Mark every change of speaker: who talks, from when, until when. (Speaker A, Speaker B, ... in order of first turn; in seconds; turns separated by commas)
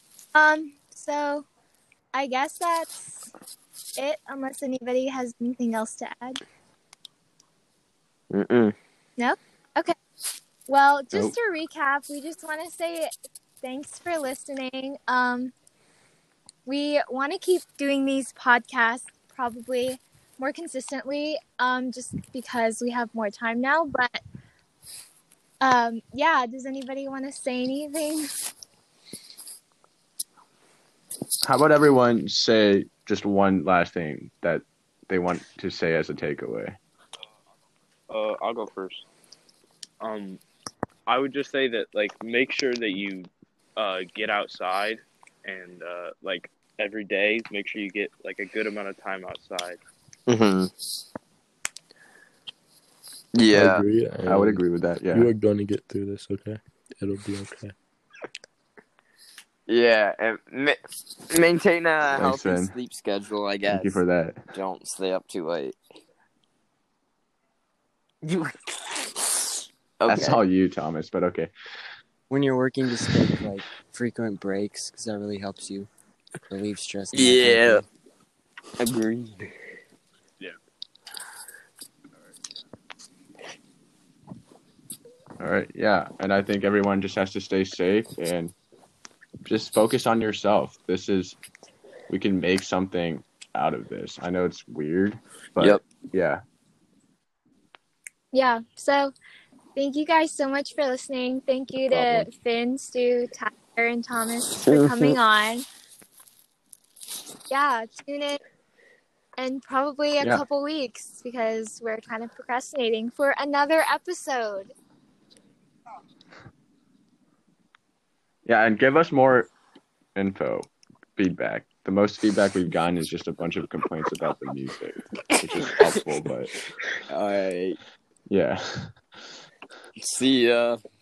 Speaker A: 0.3-1.4, Speaker A: 2.1-3.3, Speaker A: 4.0-6.4, Speaker B: 8.3-8.8, Speaker A: 9.2-9.9, Speaker A: 10.7-15.5, Speaker A: 16.6-24.2, Speaker A: 25.6-28.3, Speaker C: 31.4-36.8, Speaker D: 38.1-39.0, Speaker D: 40.0-40.4, Speaker D: 41.1-49.8, Speaker B: 50.3-50.7, Speaker B: 53.3-53.8, Speaker E: 53.5-57.8, Speaker C: 54.2-55.3, Speaker B: 59.7-60.8, Speaker B: 61.3-64.0, Speaker C: 62.1-62.8, Speaker C: 63.7-64.4, Speaker B: 64.5-65.8, Speaker B: 68.2-69.5, Speaker B: 70.0-70.4, Speaker C: 70.1-71.5, Speaker F: 72.3-75.9, Speaker B: 73.0-73.3, Speaker F: 76.5-77.8, Speaker B: 77.1-77.8, Speaker B: 78.8-79.5, Speaker C: 85.4-88.5, Speaker C: 89.4-91.4, Speaker C: 92.1-96.4, Speaker B: 95.6-95.8, Speaker A: 98.3-99.1, Speaker A: 99.8-105.7, Speaker C: 101.9-102.3, Speaker B: 104.7-105.2, Speaker A: 107.5-108.4, Speaker A: 109.4-114.7, Speaker C: 118.5-119.5, Speaker C: 120.2-126.5, Speaker B: 125.6-126.2, Speaker B: 127.1-127.8, Speaker C: 128.3-128.9, Speaker B: 130.0-130.8